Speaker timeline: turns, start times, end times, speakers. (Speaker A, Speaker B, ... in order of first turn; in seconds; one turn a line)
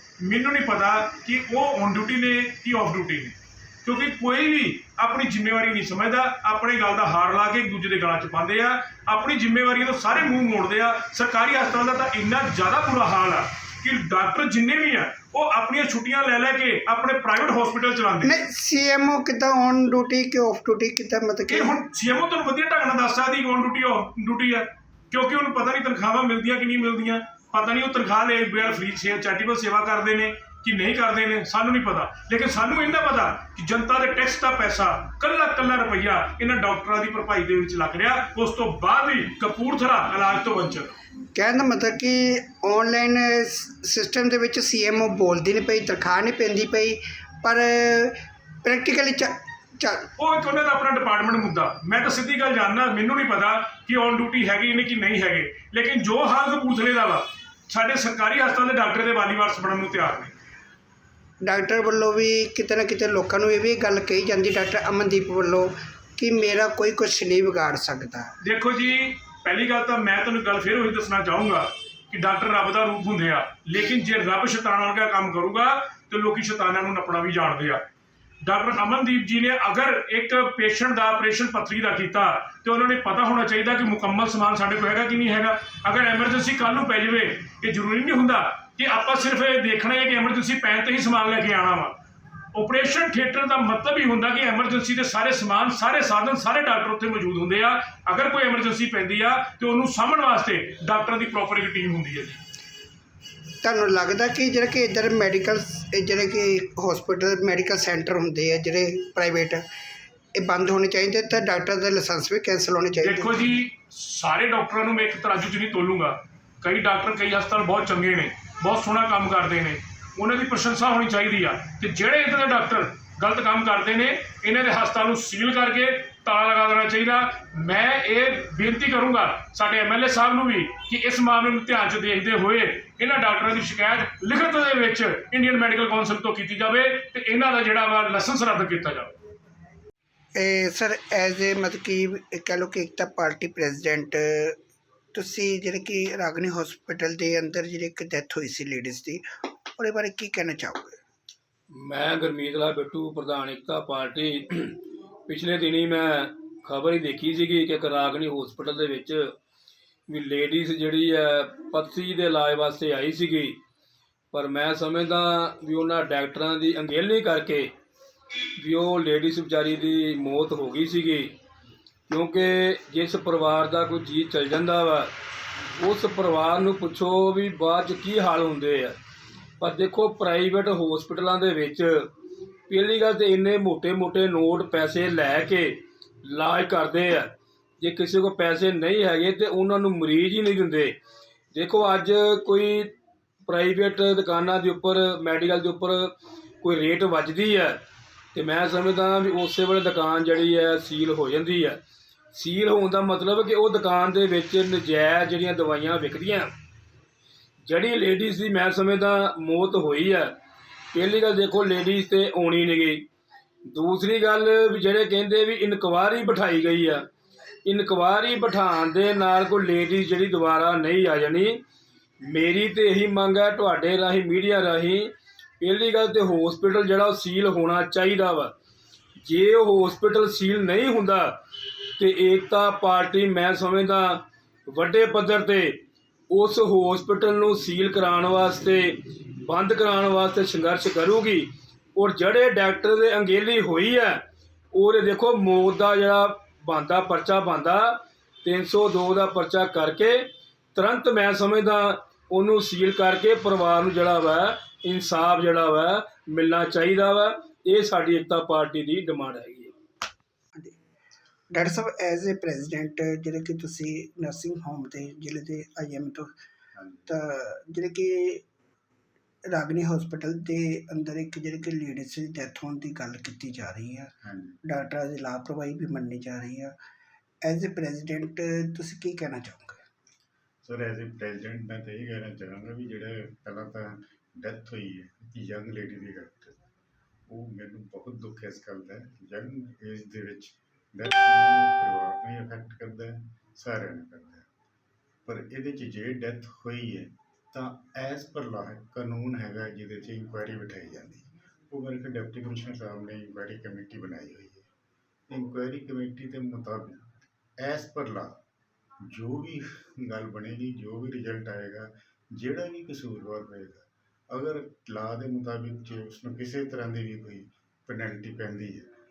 Speaker A: 0.2-18.4
Speaker B: 18.2-21.8
Speaker A: 21.5-41.0
Speaker B: 41.3-50.0
Speaker A: 50.2-60.3
Speaker B: 61.4-68.3
Speaker A: 68.4-77.8
Speaker A: 78.4-92.0
Speaker A: 92.5-102.4
Speaker B: 103.6-109.6
Speaker B: 110.3-113.3
Speaker A: 113.0-139.2
Speaker B: 140.3-144.6
Speaker B: 145.1-149.2
Speaker B: 149.8-151.0
Speaker C: 151.7-159.3
Speaker C: 160.1-163.6
Speaker C: 164.3-167.7
Speaker C: 168.6-171.3
Speaker C: 172.1-175.1
Speaker C: 175.8-178.9
Speaker C: 179.6-182.1
Speaker C: 182.7-187.3
Speaker C: 187.8-190.9
Speaker C: 191.5-192.9
Speaker C: 193.5-197.8
Speaker C: 198.3-201.8
Speaker C: 202.3-206.5
Speaker C: 207.7-210.3
Speaker C: 210.9-213.1
Speaker C: 213.7-217.1
Speaker C: 217.6-221.6
Speaker C: 222.2-228.5
Speaker C: 229.2-231.3
Speaker C: 232.0-235.8
Speaker C: 236.3-244.2
Speaker C: 244.7-259.7
Speaker B: 261.5-266.3
Speaker D: 266.7-267.1
Speaker B: 267.1-268.4
Speaker B: 269.5-274.1
Speaker D: 274.2-274.6
Speaker B: 274.6-276.7
Speaker B: 277.4-279.8
Speaker D: 280.6-286.6
Speaker D: 287.3-294.4
Speaker D: 295.2-304.7
Speaker D: 305.3-308.3
Speaker D: 309.0-318.9